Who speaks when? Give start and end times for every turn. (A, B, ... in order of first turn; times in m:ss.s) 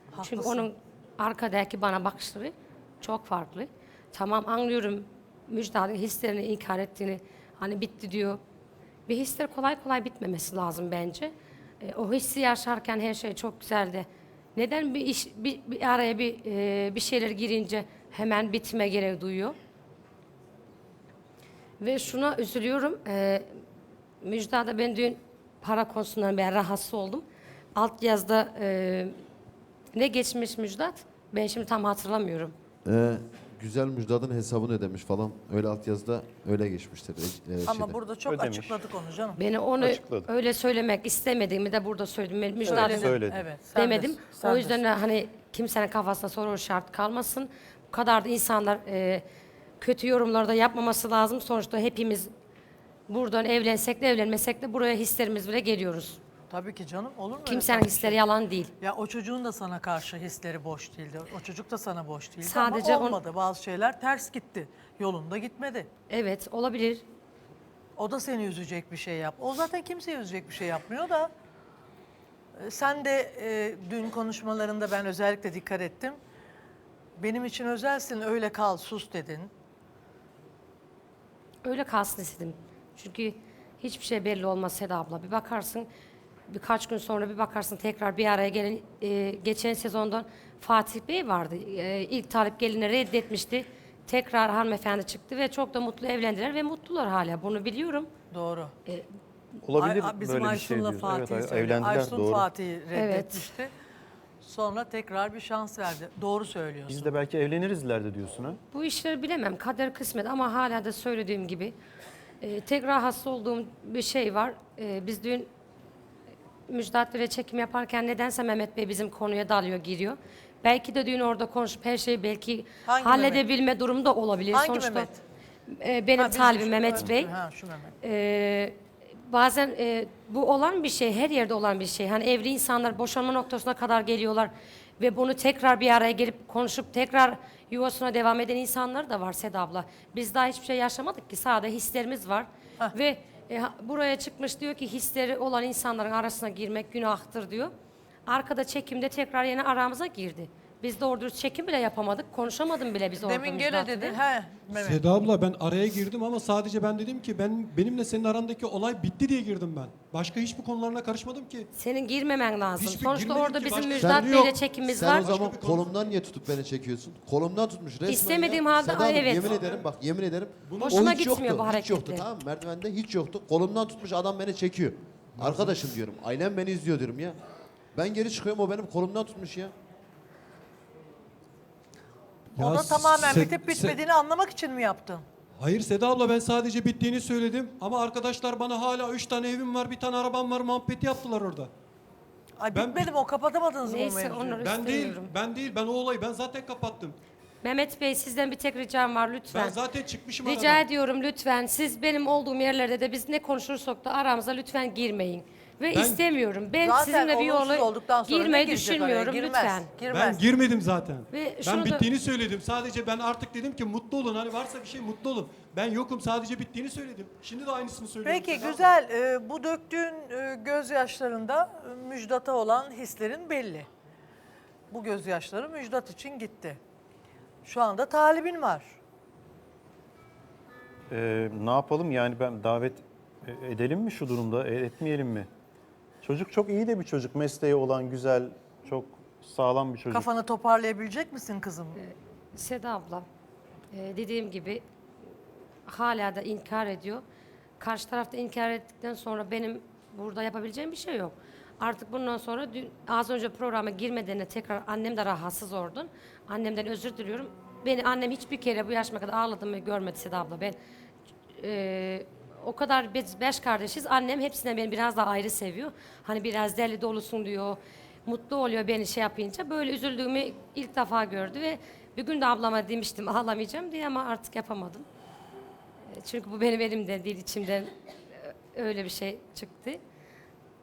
0:00.1-0:00.7 A
0:00.2-0:08.4 B
0:09.1-0:19.5 B
0:21.8-0:23.4 B
0:24.2-0:29.1 B
0:29.9-0:32.5 B
0:32.8-0:38.0 C
0:37.6-0:39.4 A
0:38.2-0:38.8 D
0:39.4-0:43.1 B
0:39.8-0:40.3 D
0:42.6-0:43.4 D
0:42.7-0:44.8 A
0:43.7-0:49.2 B
0:49.8-0:52.3 B
0:53.1-0:56.2 B
0:56.5-0:58.2 A
0:57.4-0:58.7 B
0:58.8-1:05.9 A
1:02.4-1:03.2 B
1:06.1-1:07.0 B
1:08.0-1:11.3 A
1:12.6-1:16.2 A
1:17.2-1:19.5 A
1:21.6-1:25.9 B
1:26.5-1:38.1 B
1:38.3-1:38.7 A
1:39.6-1:42.5 D
1:39.8-1:43.7 A
1:42.9-1:43.4 B
1:44.4-1:47.1 A
1:46.9-1:48.6 D
1:48.7-1:51.8 B
1:52.4-1:55.5 B
1:56.7-2:05.1 B
2:02.8-2:03.4 A
2:04.5-2:05.2 A
2:05.7-2:07.3 B
2:06.2-2:07.9 A
2:08.0-2:27.7 B
2:28.3-2:34.2 B
2:33.2-2:35.0 A
2:34.7-2:41.7 E
2:41.8-2:45.3 B
2:42.7-2:46.0 E
2:44.0-2:44.3 C
2:44.9-2:57.4 C
2:48.0-2:49.6 B
2:49.4-2:49.8 E
2:50.6-2:51.2 E
2:50.8-2:52.3 B
2:55.4-2:55.8 E
2:57.9-2:59.7 C
3:02.5-3:05.2 A
3:02.6-3:04.0 E
3:05.6-3:11.7 E
3:12.6-3:14.6 A
3:12.7-3:13.1 E
3:13.8-3:15.3 B
3:14.6-3:17.2 E
3:17.6-3:19.8 B
3:19.5-3:20.8 E
3:20.4-3:29.9 B
3:25.9-3:26.2 E
3:26.8-3:30.4 A
3:30.1-3:38.8 E
3:31.3-3:32.1 B
3:38.2-3:43.9 A
3:44.9-3:46.8 A
3:47.6-3:49.0 A
3:51.1-3:55.5 D
3:56.2-4:00.3 D
4:00.1-4:02.0 A
4:02.0-4:03.2 B
4:03.9-4:04.8 B
4:05.9-4:07.2 B
4:07.8-4:20.8 B
4:21.6-4:35.0 B
4:36.1-4:40.0 B